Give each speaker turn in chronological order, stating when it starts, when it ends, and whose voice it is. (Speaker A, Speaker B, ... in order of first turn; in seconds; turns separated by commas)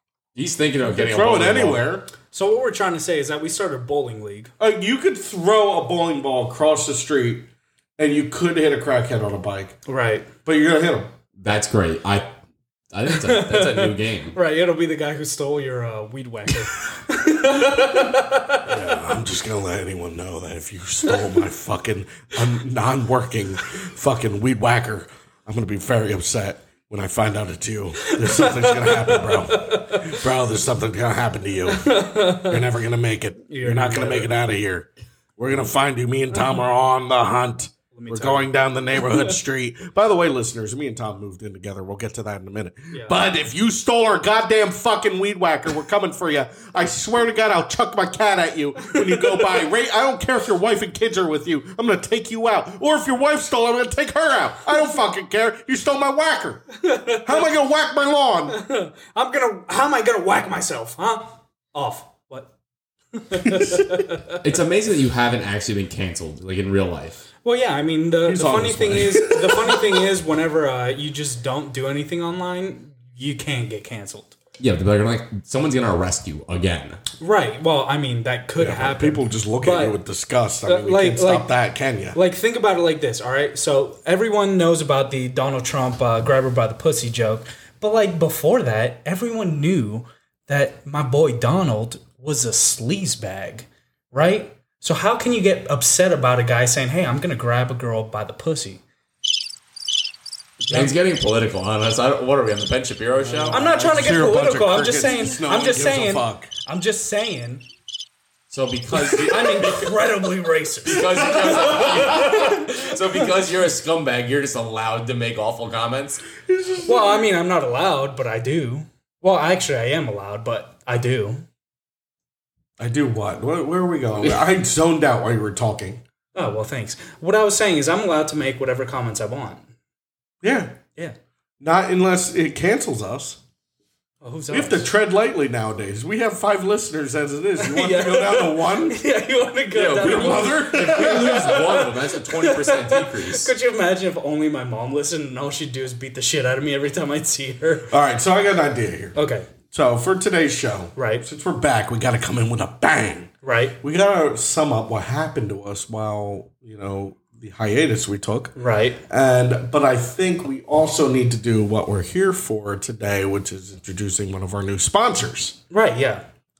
Speaker A: 0.3-1.8, Speaker B: 0.8-2.1, Speaker C: 2.3-4.5, Speaker B: 4.6-9.8, Speaker C: 9.9-10.3, Speaker B: 10.4-11.1, Speaker A: 11.4-12.3, Speaker A: 12.9-14.3, Speaker C: 13.1-18.7, Speaker B: 18.6-56.7, Speaker C: 28.0-30.2, Speaker C: 31.7-32.6, Speaker C: 33.5-34.3, Speaker C: 37.9-39.3, Speaker C: 48.8-49.6, Speaker C: 56.8-57.5, Speaker B: 57.2-58.6, Speaker C: 58.5-62.5, Speaker C: 63.1-64.4, Speaker B: 63.4-63.9, Speaker A: 64.4-67.2, Speaker C: 67.4-74.3, Speaker B: 68.2-70.0, Speaker A: 74.6-77.0, Speaker C: 77.2-80.0, Speaker B: 78.6-82.2, Speaker C: 80.7-81.5, Speaker C: 82.1-98.8, Speaker C: 100.6-100.9, Speaker A: 100.7-103.6, Speaker B: 103.1-106.5, Speaker C: 103.5-107.6, Speaker A: 108.5-109.9, Speaker C: 109.2-113.2, Speaker A: 110.8-116.3, Speaker B: 111.0-112.5, Speaker B: 116.4-117.2, Speaker C: 116.8-121.4, Speaker B: 122.8-126.0, Speaker C: 126.3-129.7, Speaker B: 130.4-130.8, Speaker B: 131.6-133.4, Speaker C: 134.2-134.9, Speaker B: 134.5-139.0, Speaker C: 137.6-147.9, Speaker A: 139.7-143.5, Speaker B: 140.0-141.7, Speaker B: 147.9-149.2, Speaker C: 149.1-149.5, Speaker B: 149.7-153.3, Speaker C: 150.9-151.2, Speaker C: 153.4-153.8, Speaker B: 153.8-158.5, Speaker C: 158.6-159.0, Speaker B: 159.1-165.6, Speaker C: 165.7-166.2